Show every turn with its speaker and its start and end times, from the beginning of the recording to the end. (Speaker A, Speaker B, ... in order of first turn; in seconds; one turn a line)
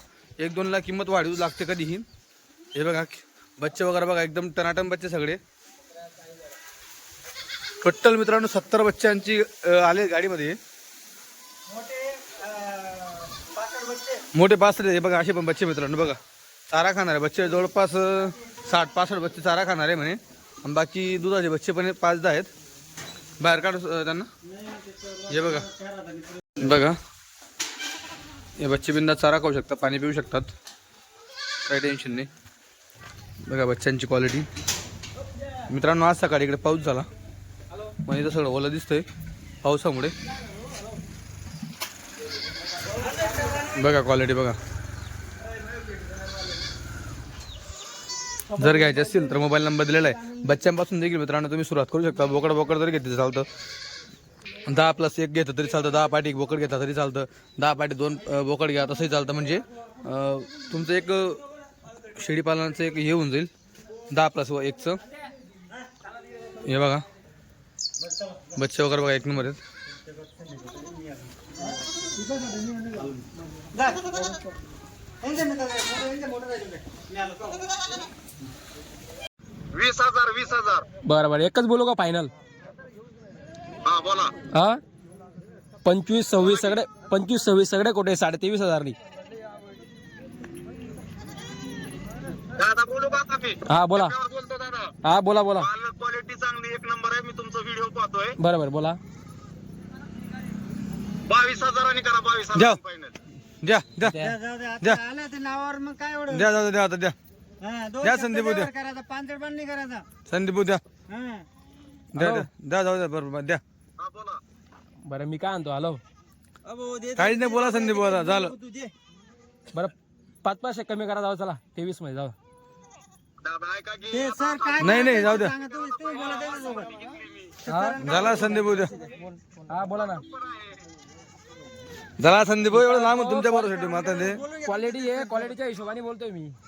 Speaker A: 0.4-2.0
Speaker A: 2.7-5.4
Speaker A: 7.8-10.6
Speaker B: 11.7-14.2
Speaker A: 14.3-16.2
Speaker A: 16.7-22.5
Speaker A: 23.4-24.3
Speaker B: 24.4-26.8
Speaker A: 25.3-25.7
Speaker A: 26.6-27.0
Speaker A: 28.6-30.5
Speaker A: 31.6-32.3
Speaker A: 33.5-34.5
Speaker A: 35.7-37.1
Speaker A: 38.0-39.0
Speaker A: 39.6-40.1
Speaker B: 43.1-43.7
Speaker C: 43.1-43.5
Speaker A: 43.7-44.6
Speaker B: 48.5-49.1
Speaker A: 48.5-53.5
Speaker A: 54.7-61.4
Speaker A: 62.1-63.5
Speaker A: 64.1-65.0
Speaker A: 66.6-67.0
Speaker B: 68.0-68.4
Speaker A: 68.5-69.6
Speaker B: 69.9-71.8
Speaker C: 72.6-73.2
Speaker B: 73.7-74.2
Speaker B: 75.2-77.8
Speaker D: 79.7-80.8
Speaker C: 81.0-82.3
Speaker D: 83.8-84.3
Speaker C: 84.5-84.8
Speaker C: 85.8-89.0
Speaker D: 86.4-86.7
Speaker D: 92.5-94.9
Speaker C: 93.7-94.2
Speaker C: 95.0-95.7
Speaker D: 95.5-98.4
Speaker C: 98.4-99.0
Speaker D: 101.3-103.1
Speaker A: 103.6-104.2
Speaker C: 104.0-104.4
Speaker B: 104.2-106.5
Speaker A: 106.3-107.2
Speaker B: 107.6-110.0
Speaker A: 108.0-108.7
Speaker A: 110.3-110.8
Speaker B: 111.1-111.5
Speaker A: 112.1-113.6
Speaker C: 112.1-112.5
Speaker D: 114.0-114.4
Speaker C: 115.0-116.0
Speaker B: 116.7-118.9
Speaker A: 117.2-118.5
Speaker C: 119.7-122.3
Speaker D: 123.4-127.6
Speaker B: 124.1-129.1
Speaker A: 124.8-125.5
Speaker A: 127.7-128.9
Speaker C: 127.7-130.2
Speaker D: 129.9-130.9
Speaker A: 132.2-134.4
Speaker C: 132.7-133.7
Speaker B: 133.6-135.6
Speaker C: 134.6-136.6